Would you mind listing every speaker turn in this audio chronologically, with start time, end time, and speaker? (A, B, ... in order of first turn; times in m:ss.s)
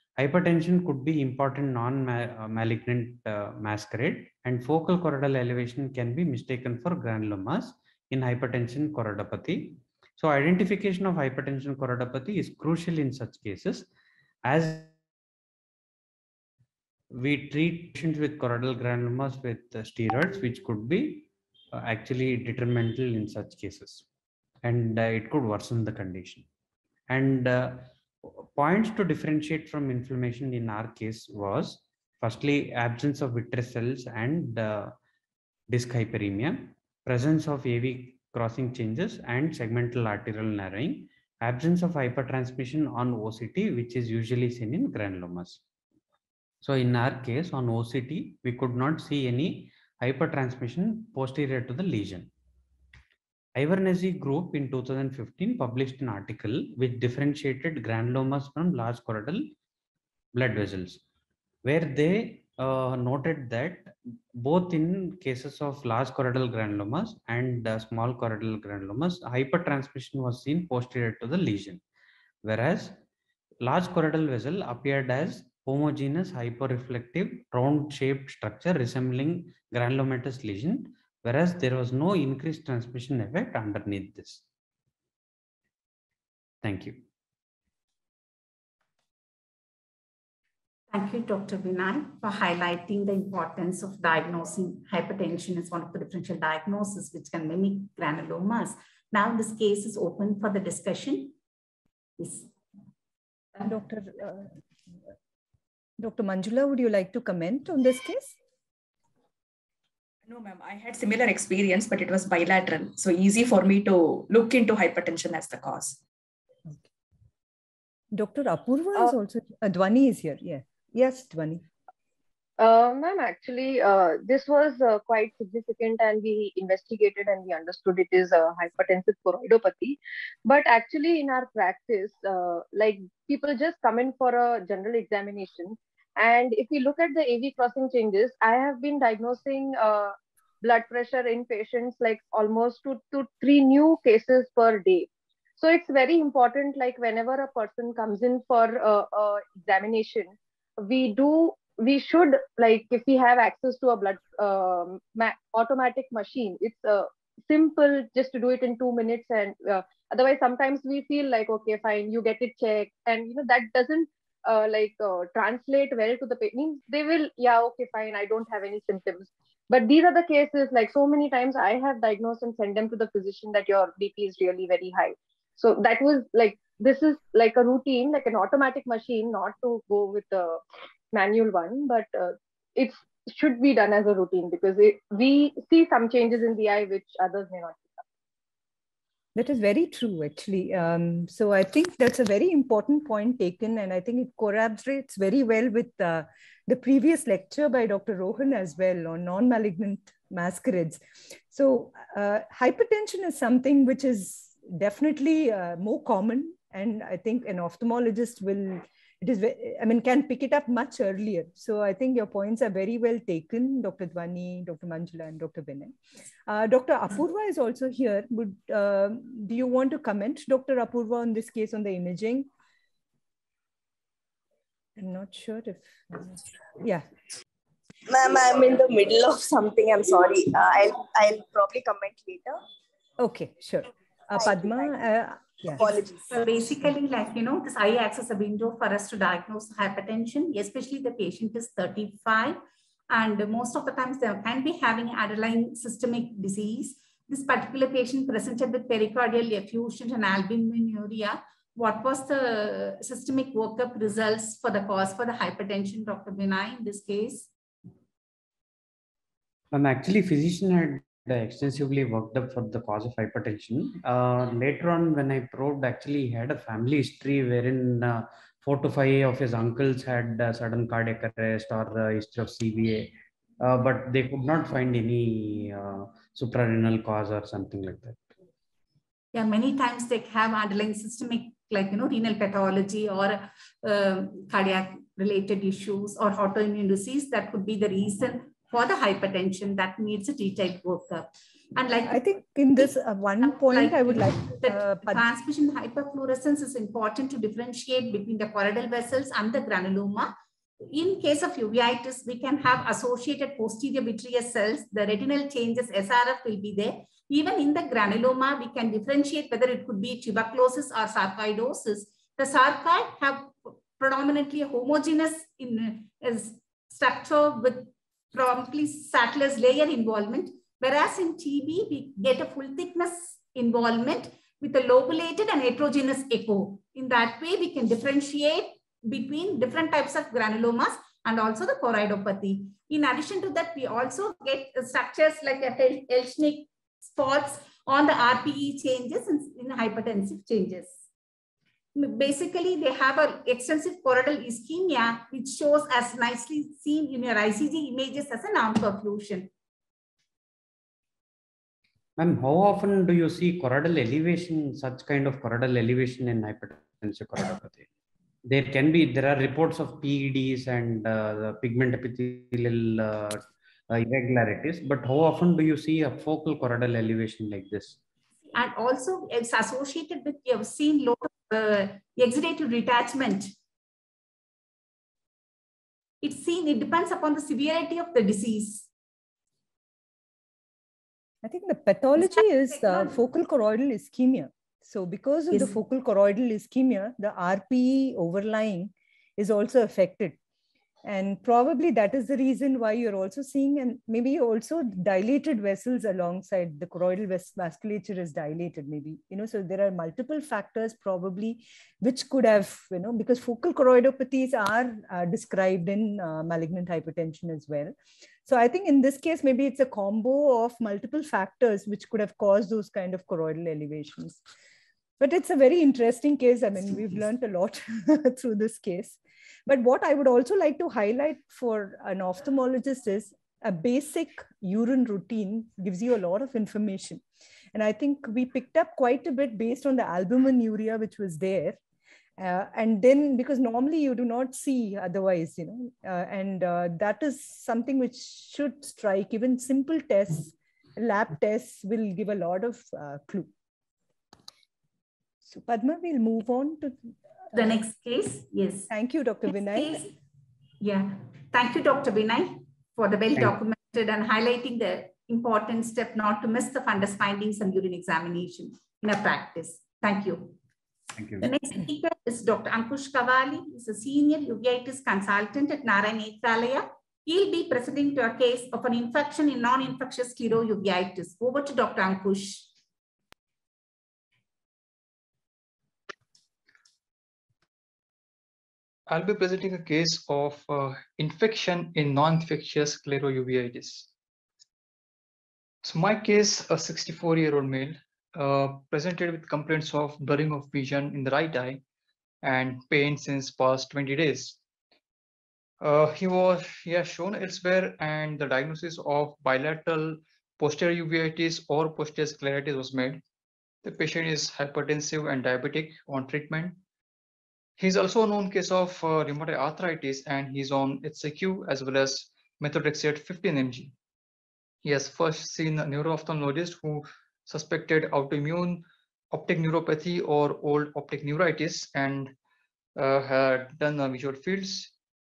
0:00.2-0:13.9 A
0:14.4-0:14.9 A
0:17.1-0:24.0 A
0:24.6-0:26.5 A
0:27.1-0:34.9 A
0:35.7-0:45.6 A
0:46.6-0:52.3 A
0:53.6-0:59.5 A
1:00.3-1:01.0 A
1:01.6-1:11.8 A
1:12.4-1:13.0 A
1:13.6-1:24.4 A
1:26.6-1:27.0 A
1:30.9-1:41.4 B
1:42.2-1:42.5 B
1:43.6-1:44.5 C
1:46.0-1:48.4 C
1:50.3-1:56.0 D
1:58.1-2:01.6 C
2:02.6-3:08.0 E
3:09.4-3:35.9 C
3:36.5-3:42.5 C
3:45.0-3:47.0 C
3:48.1-3:52.6 F
3:53.2-3:55.9 C
3:54.4-3:54.7 F
3:55.8-3:56.3 F
3:56.3-4:17.5 B
4:19.7-4:38.2 A
4:39.3-4:52.2 B
4:52.1-4:55.2 C
4:53.4-5:00.3 B
5:00.8-5:41.0 B
5:42.0-5:49.5 B
5:52.2-5:57.9 A
5:58.4-6:08.0 A
6:08.5-6:13.5 B
6:16.2-6:18.9 B
6:21.4-6:30.4 C
6:22.2-6:23.1 B
6:31.0-6:47.9 C
6:48.5-6:54.4 C
6:55.2-7:07.2 C
7:07.7-7:11.8 C
7:12.4-7:23.5 C
7:25.5-7:27.8 C
7:27.5-7:28.9 B
7:28.9-7:30.0 C
7:29.5-7:30.1 B
7:30.8-7:40.6 B
7:41.2-7:41.5 A
7:41.4-7:52.7 B
7:59.1-8:04.1 G
8:05.8-8:11.8 G
8:12.4-8:14.6 G
8:15.8-8:23.2 G
8:23.8-8:26.8 G
8:27.8-8:33.9 G
8:34.8-8:42.3 G
8:43.0-8:44.9 G